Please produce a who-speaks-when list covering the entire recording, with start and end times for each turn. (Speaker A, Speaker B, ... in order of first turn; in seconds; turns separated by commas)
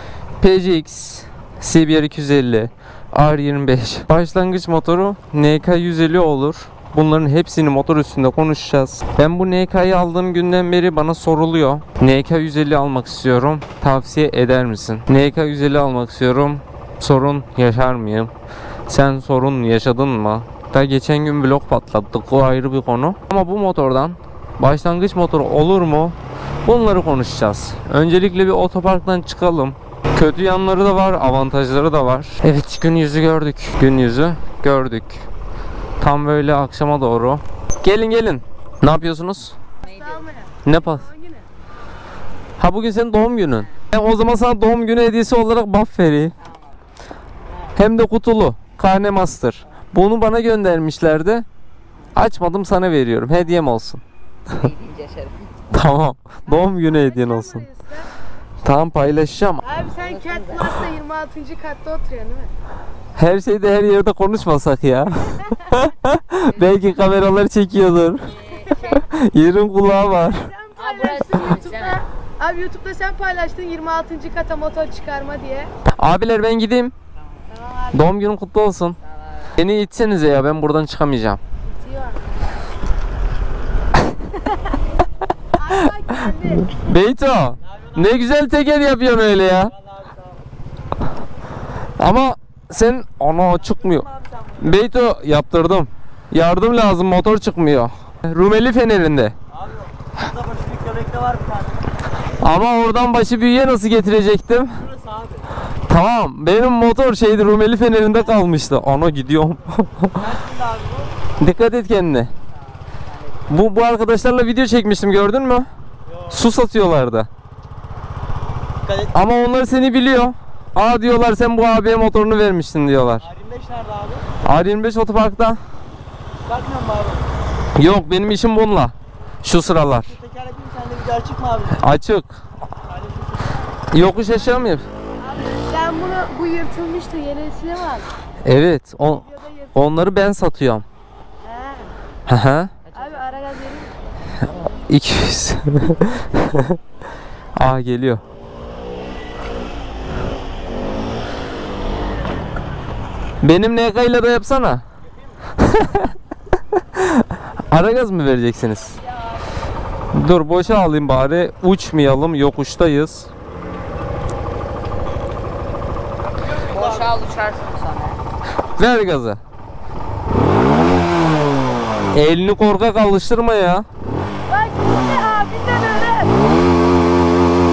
Speaker A: 0.4-18.3, Speaker A: 18.9-35.3, Speaker A: 36.0-39.6, Speaker B: 39.8-40.3, Speaker C: 39.8-41.5, Speaker A: 40.6-41.1, Speaker A: 42.6-46.4, Speaker A: 47.7-51.5, Speaker A: 52.1-54.0, Speaker B: 54.5-55.5, Speaker A: 55.7-57.7, Speaker C: 56.5-58.1, Speaker A: 58.6-59.6, Speaker C: 59.6-62.5, Speaker B: 60.0-60.8, Speaker A: 63.2-70.5, Speaker B: 66.4-66.7, Speaker B: 68.4-69.0, Speaker C: 70.3-75.7, Speaker B: 70.8-72.1, Speaker A: 75.9-76.9, Speaker C: 77.6-77.9, Speaker A: 77.9-79.0, Speaker B: 79.1-79.5, Speaker A: 79.6-81.4, Speaker C: 81.7-82.2, Speaker C: 85.5-86.8, Speaker A: 85.7-89.8, Speaker D: 89.9-90.2, Speaker A: 92.0-99.3, Speaker D: 94.1-94.5, Speaker D: 99.6-101.7, Speaker A: 102.4-104.9, Speaker D: 104.9-105.5, Speaker A: 105.9-110.4, Speaker D: 110.2-111.1, Speaker A: 111.4-112.3, Speaker A: 113.5-115.7, Speaker A: 116.3-117.3, Speaker D: 118.9-119.1, Speaker A: 119.1-123.3, Speaker D: 123.3-124.3, Speaker A: 124.4-125.6, Speaker D: 126.5-127.2, Speaker A: 127.8-130.2, Speaker D: 130.1-131.8, Speaker A: 131.7-132.4, Speaker D: 132.9-133.6, Speaker A: 133.9-134.9, Speaker C: 135.2-138.1, Speaker A: 138.4-140.8, Speaker C: 141.4-141.9, Speaker A: 142.3-142.7, Speaker B: 142.9-143.2, Speaker C: 142.9-143.9, Speaker A: 144.7-146.8, Speaker A: 147.6-148.2, Speaker A: 153.4-154.8, Speaker A: 155.6-156.1, Speaker A: 156.8-159.0, Speaker A: 160.1-163.3, Speaker B: 166.6-168.2, Speaker D: 166.7-167.0, Speaker A: 168.8-169.4, Speaker A: 172.1-173.9, Speaker C: 174.5-176.4